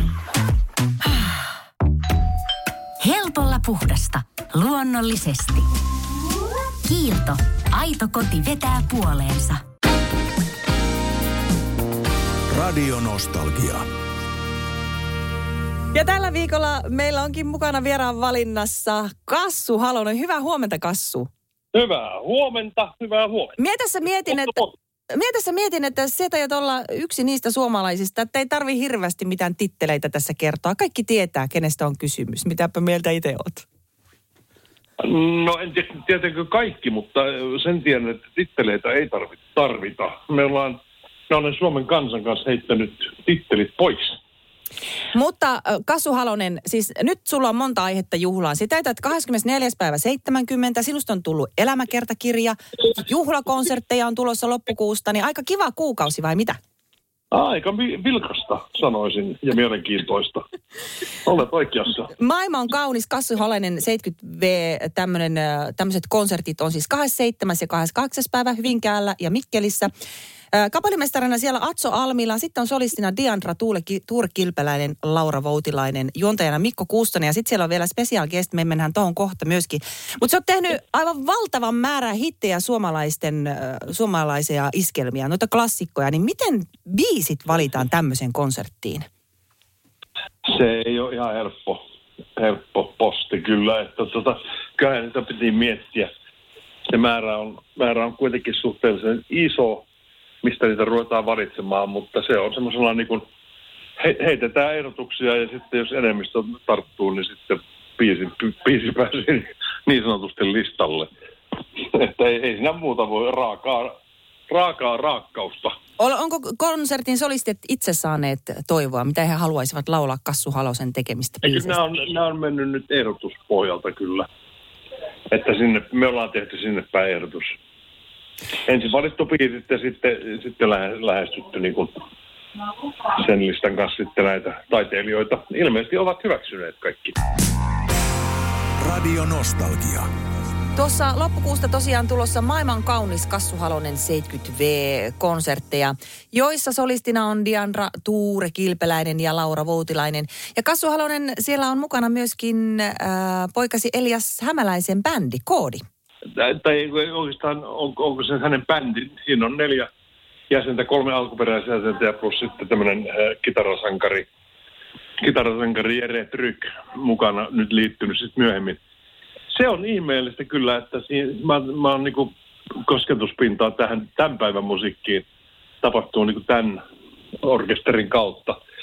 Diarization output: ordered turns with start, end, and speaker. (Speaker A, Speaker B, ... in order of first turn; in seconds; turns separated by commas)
Speaker A: 3.0-5.7, Speaker A: 6.8-9.6, Speaker B: 12.5-13.8, Speaker C: 15.9-21.3, Speaker D: 21.7-23.5, Speaker C: 23.6-24.5, Speaker D: 24.3-24.7, Speaker C: 25.1-33.6, Speaker D: 35.0-40.8, Speaker D: 41.3-44.1, Speaker C: 45.1-56.6, Speaker D: 57.3-60.4, Speaker D: 61.2-62.1, Speaker C: 62.2-69.9, Speaker C: 70.5-89.1, Speaker D: 90.5-91.8, Speaker D: 92.4-96.1, Speaker D: 96.9-99.8, Speaker D: 100.4-103.2, Speaker D: 104.0-111.1, Speaker D: 111.8-113.9, Speaker D: 114.5-115.7, Speaker C: 116.0-121.8, Speaker D: 121.4-124.3, Speaker D: 125.3-127.5, Speaker D: 128.6-131.9, Speaker D: 133.1-137.1, Speaker B: 138.8-140.1, Speaker C: 140.8-155.8, Speaker D: 156.3-159.9, Speaker D: 160.5-164.3, Speaker D: 165.2-168.8, Speaker D: 169.5-172.3, Speaker D: 172.8-175.2, Speaker D: 175.8-176.8, Speaker D: 177.4-178.6